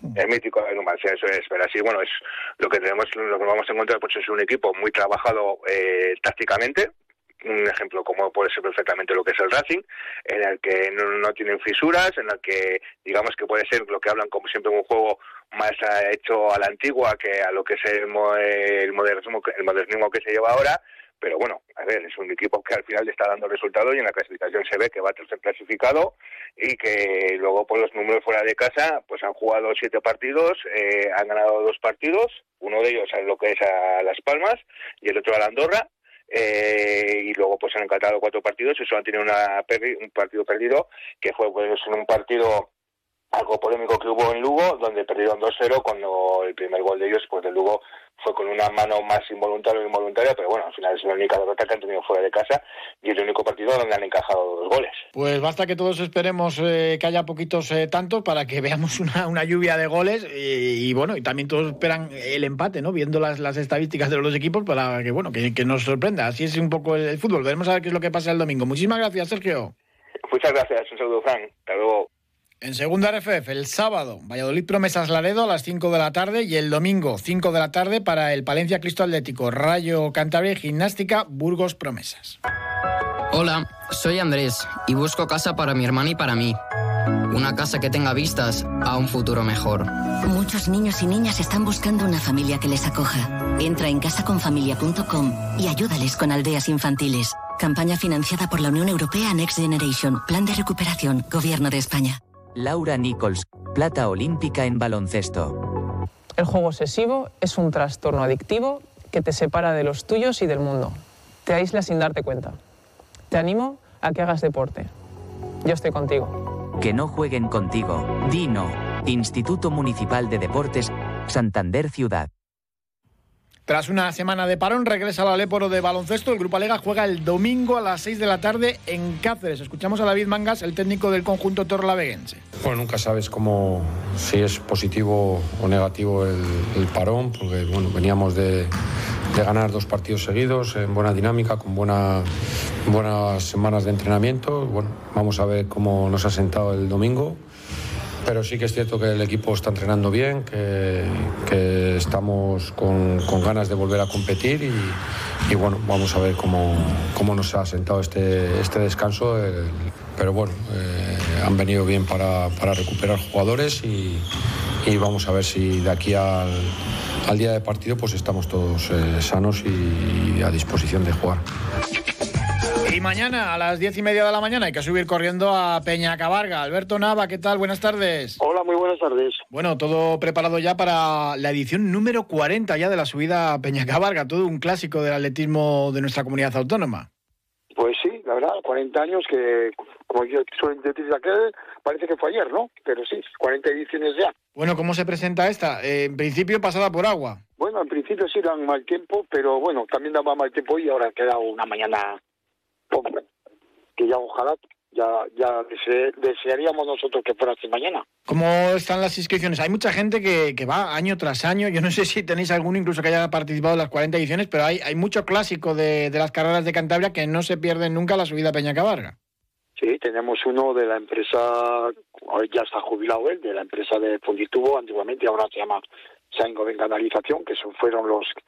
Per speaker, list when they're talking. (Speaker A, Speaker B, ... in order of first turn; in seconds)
Speaker A: 0.1-6.9, 7.4-42.7, 43.3-55.0, 70.3-72.1
Speaker B: 55.1-69.7, 72.6-82.4, 123.7-132.4, 172.9-178.4, 179.5-187.1, 194.6-197.4, 208.3-219.2
Speaker C: 83.3-86.6, 87.3-89.9
Speaker D: 90.2-102.2
Speaker E: 102.6-105.6, 116.8-122.3
Speaker F: 106.4-112.6, 113.3-114.9, 115.6-116.4
Speaker G: 132.6-138.7, 139.3-142.3, 142.8-147.4, 148.2-164.3, 164.8-171.4
Speaker H: 178.4-179.4, 187.8-194.3, 197.6-202.2, 202.9-203.2, 204.0-208.1, 219.8-228.3